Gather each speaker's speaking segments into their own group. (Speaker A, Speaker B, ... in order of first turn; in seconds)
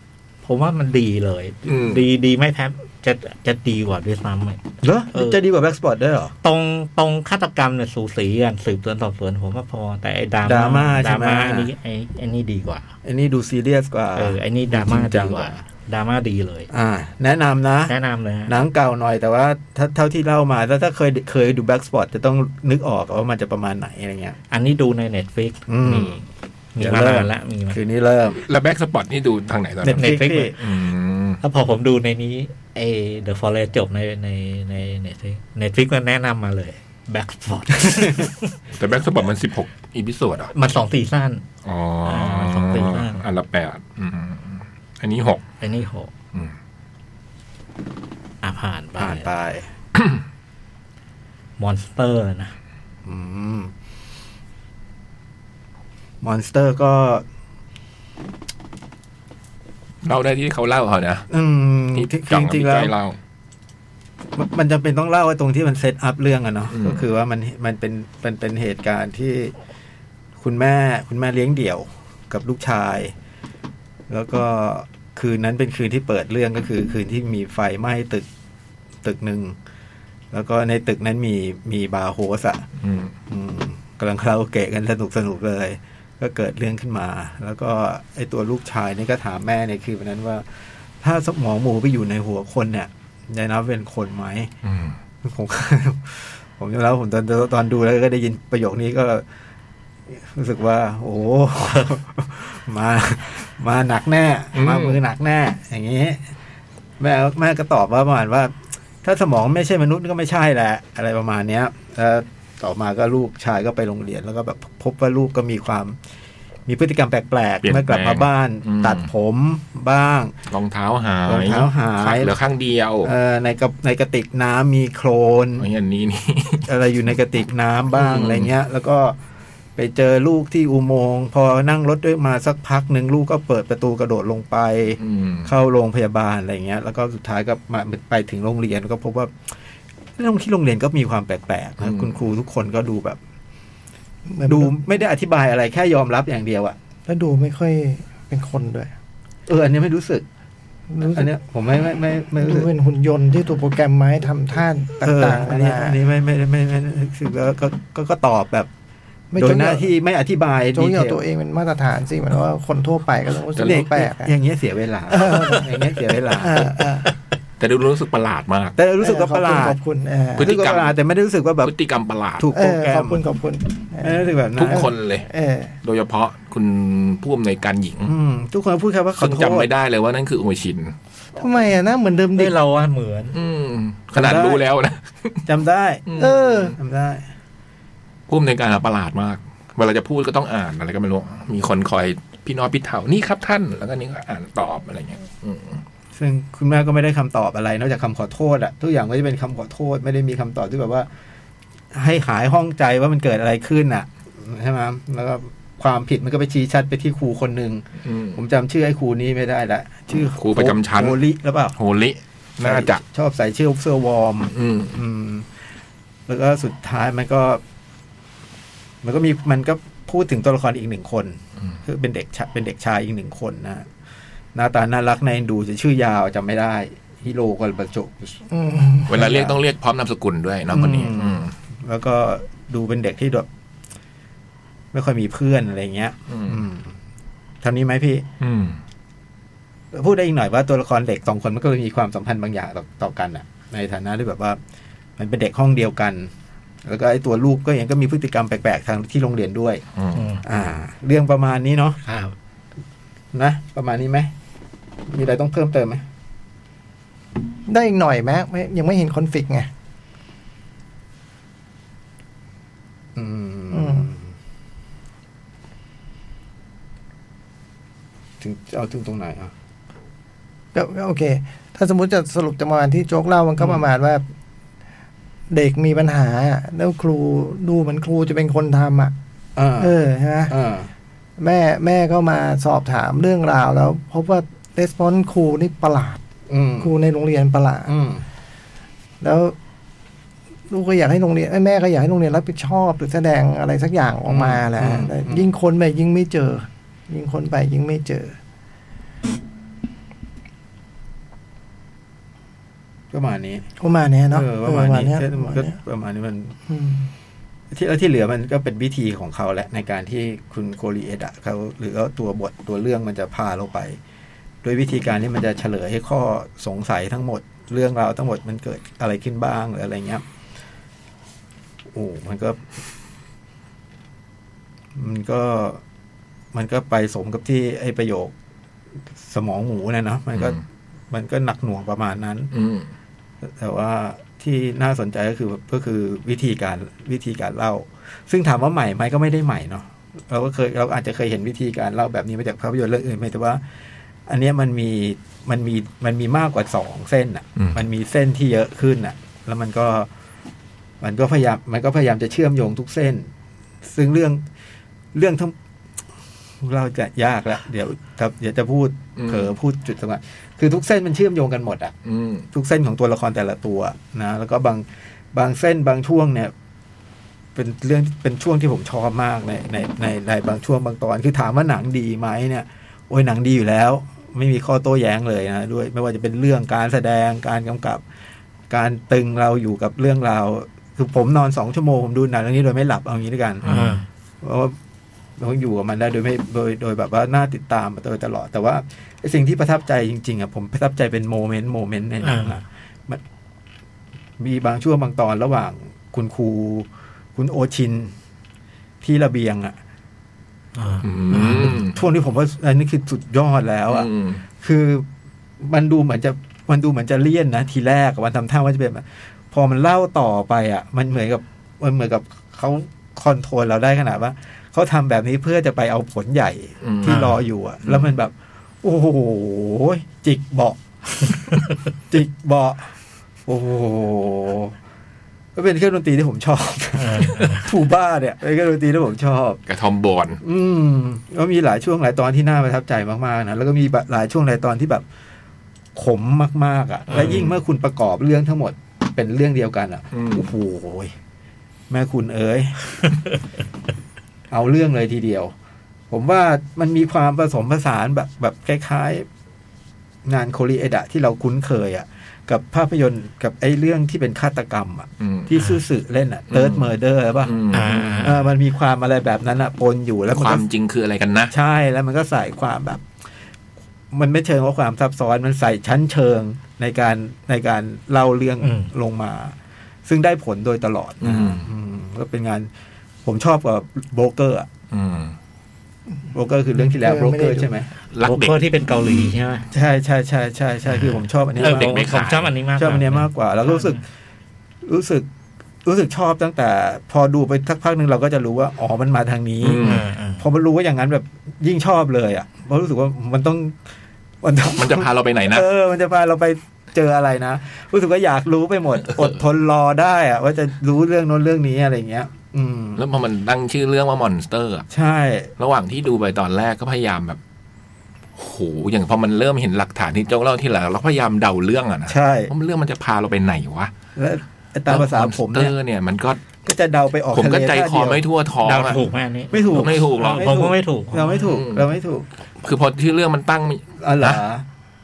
Speaker A: 0.4-4.6, 5.1-5.4, 6.4-12.9, 14.2-16.7, 17.9-18.6, 24.5-26.3, 26.8-27.8, 29.9-30.6, 31.4-38.5, 40.5-41.5, 42.0-43.2, 45.6-46.1, 48.4-49.3, 51.6-52.5, 182.3-183.4, 250.1-250.4, 252.1-252.3, 383.6-384.1, 392.2-392.6, 400.8-401.8, 417.1-417.4, 427.0-427.7, 437.1-437.5, 455.6-455.8, 457.7-458.5, 468.6-468.9, 478.2-479.7, 480.9-484.0, 489.8-490.5, 518.6-521.4
Speaker B: 1.7-2.0, 28.4-31.4, 38.7-40.5, 41.6-45.5, 60.0-61.3, 62.0-63.2, 66.7-67.0, 82.8-83.1, 94.6-95.0, 104.5-105.0, 117.6-119.1, 120.5-123.1, 125.6-126.7, 127.9-128.5, 135.0-135.5, 141.8-142.2, 163.5-163.9, 167.6-168.7, 170.4-170.9, 171.6-172.5, 174.6-175.3, 175.8-178.1, 179.2-180.9, 183.3-185.4, 186.1-186.4, 188.3-195.8, 208.0-208.4, 210.4-211.2, 211.8-213.0, 214.5-215.0, 229.1-231.5, 236.3-236.6, 238.4-238.8, 249.9-250.3, 332.5-332.9, 359.2-359.5, 362.1-362.5, 383.6-383.9, 401.0-402.0, 403.9-404.4, 416.8-417.2, 429.7-430.4, 437.1-437.5, 440.1-440.5, 455.2-455.5, 456.5-458.3, 460.3-461.5, 471.2-471.7, 474.9-475.4, 478.1-478.6, 481.6-482.5, 489.6-490.1, 494.7-495.7, 499.1-499.3, 502.9-504.9, 505.6-507.4, 508.4-513.9, 514.9-516.4, 517.3-519.0, 519.7-520.5, 521.5-521.9, 522.6-524.4
Speaker C: 4.8-6.3, 10.4-11.7, 13.0-15.6, 16.7-24.4, 25.7-26.2, 26.8-28.4, 29.8-30.6, 49.0-49.7, 53.0-53.7, 56.2-57.2, 61.3-62.9, 64.4-69.5, 70.4-73.1, 74.1-78.3, 79.0-79.6, 80.3-82.6, 83.3-94.5, 95.2-99.2, 100.1-106.4, 107.0-116.0, 116.7-120.4, 121.3-122.3, 123.0-125.7, 126.7-129.2, 129.8-139.5, 140.2-143.2, 144.4-146.8, 149.5-150.2, 151.1-152.7, 155.0-158.7, 159.4-161.2, 163.6-166.8, 168.8-169.8, 170.4-171.7, 172.4-173.2, 174.0-174.9, 178.1-179.7, 184.1-184.6, 185.5-187.2, 196.1-201.1, 201.9-211.8, 212.6-215.4, 216.3-217.6, 219.0-223.9, 224.6-228.4, 229.1-229.6, 230.7-233.5, 234.9-236.9, 237.6-238.3, 239.9-244.6, 245.2-246.3, 246.8-249.8, 250.4-252.0, 253.3-254.3, 255.1-256.0, 263.2-264.2, 268.4-269.5, 273.6-273.8, 279.6-279.9, 280.5-280.9, 286.5-286.9, 287.9-288.2, 294.3-295.4, 303.1-303.7, 304.3-306.6, 307.7-314.0, 314.6-320.2, 321.9-322.6, 324.9-325.8, 326.5-328.3, 329.2-332.5, 333.5-343.6, 344.3-350.1, 351.0-353.3, 353.9-354.4, 355.1-355.5, 356.6-361.9, 362.5-366.5, 367.6-378.0, 378.7-384.7, 385.4-393.2, 394.4-398.1, 399.0-399.8, 401.4-404.1, 404.6-405.1, 405.6-421.5, 422.1-422.9, 423.5-424.8, 425.6-429.6, 430.4-435.1, 435.9-441.1, 441.9-442.8, 444.5-445.5, 446.1-449.3, 450.2-460.6, 461.5-463.0, 464.1-469.6, 470.1-472.7, 473.2-474.7, 476.3-477.9, 479.7-482.1, 482.8-484.0, 484.8-485.3, 485.8-493.8, 494.4-503.0, 504.9-505.5, 512.1-512.5, 514.2-515.7, 516.6-518.2, 519.5-522.3, 524.0-524.6
Speaker D: 144.3-144.7, 147.1-148.9, 150.9-151.3, 152.4-156.0, 159.3-159.9, 160.7-164.3, 165.1-165.7, 166.3-167.1, 169.0-170.5, 172.5-175.8, 181.4-182.6, 186.2-186.8, 228.5-229.1, 257.7-259.7, 263.7-264.1, 270.7-274.2, 275.5-279.1, 279.8-280.5, 281.4-286.2, 286.8-287.9, 289.2-289.6, 290.7-298.4, 303.8-305.8, 306.7-307.1, 476.8-477.7